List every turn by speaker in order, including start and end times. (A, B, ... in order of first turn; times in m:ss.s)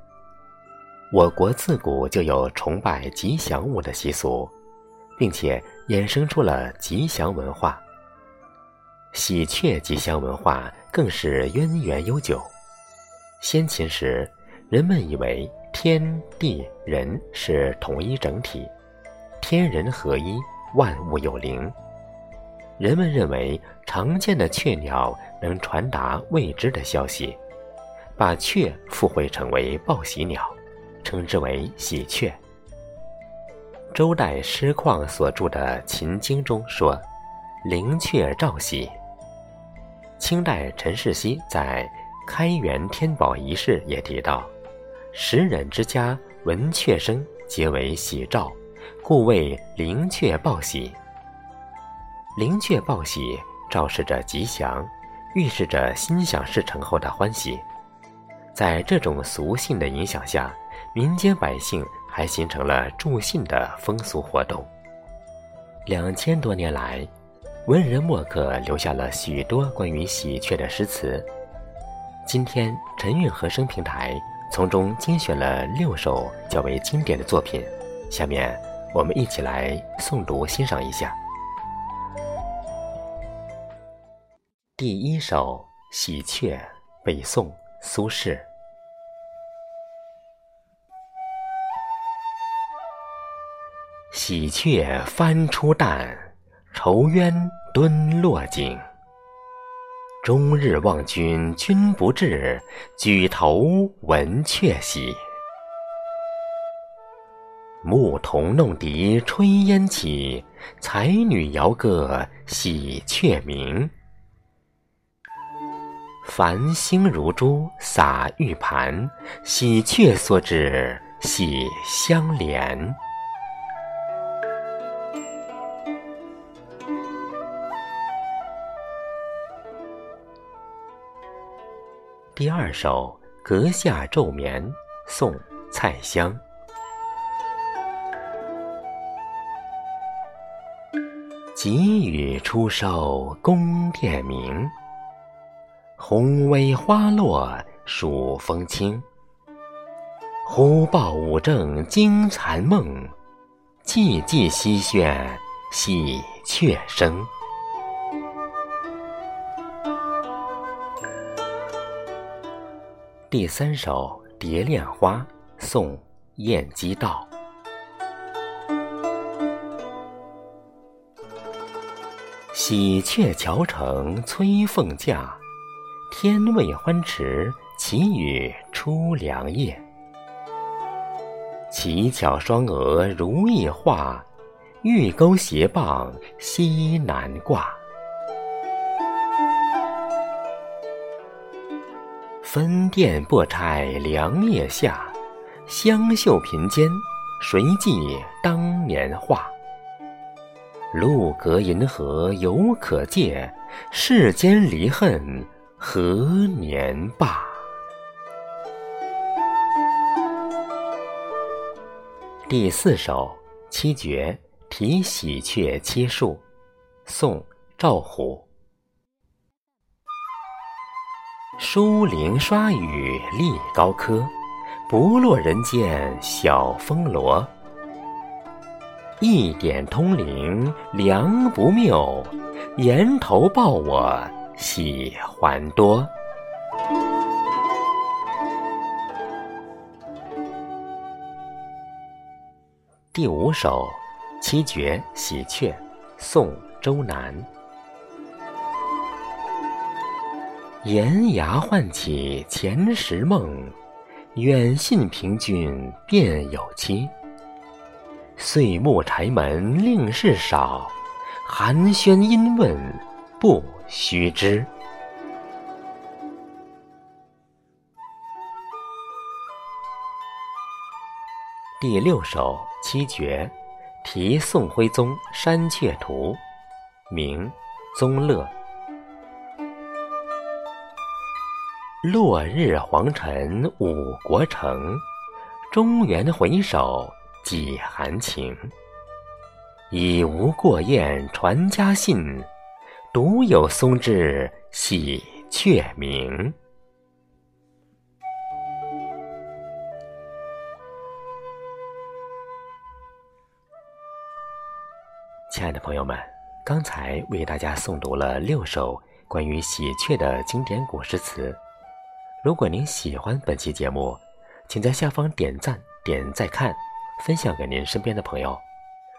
0:01.1-0:04.5 A
0:05.2-0:07.8 A
0:09.1-0:12.5 A
0:13.4-0:18.7 A
0:19.4-0:21.7 A
0:22.8-0:27.4 A
0:28.2-0:32.4 A
0:33.9-0:37.0 A
0:37.6-0:38.9 A
0:40.2-0:44.5 A
0:45.1-0:51.0 A
0:52.3-0:57.6 A
0:58.5-1:04.7 A
1:05.8-1:07.1 A
1:07.6-1:11.3 A
1:12.2-1:21.2 A
1:24.8-1:28.5 A
1:34.1-1:38.8 A
1:40.2-1:45.2 A
1:47.8-1:53.9 A
1:56.2-2:03.0 A
2:12.4-2:16.4 A
2:21.5-2:24.7 A
2:26.0-2:29.0 A
2:30.4-2:33.1 A
2:33.8-2:37.3 A
2:43.3-2:47.3 A
2:52.5-2:55.4 A
2:56.1-2:59.8 A
3:01.7-3:04.3 A
3:04.8-3:07.8 A
3:12.4-3:15.1 A
3:15.6-3:19.5 A
3:20.9-3:27.7 A
3:32.5-3:36.4 A
3:37.0-3:38.5 A
3:41.6-3:44.3 A
3:44.9-3:47.5 A
3:49.2-3:56.1 A
4:03.1-4:07.5 A
4:10.8-4:13.7 A
4:14.3-4:17.1 A
4:18.4-4:24.7 A
4:31.8-4:36.4 A
4:37.1-4:38.5 A
4:42.0-4:45.0 A
4:45.7-4:48.7 A
4:49.9-4:52.5 A
4:53.1-4:56.6 A
5:05.5-5:11.6 A
5:12.4-5:18.6 A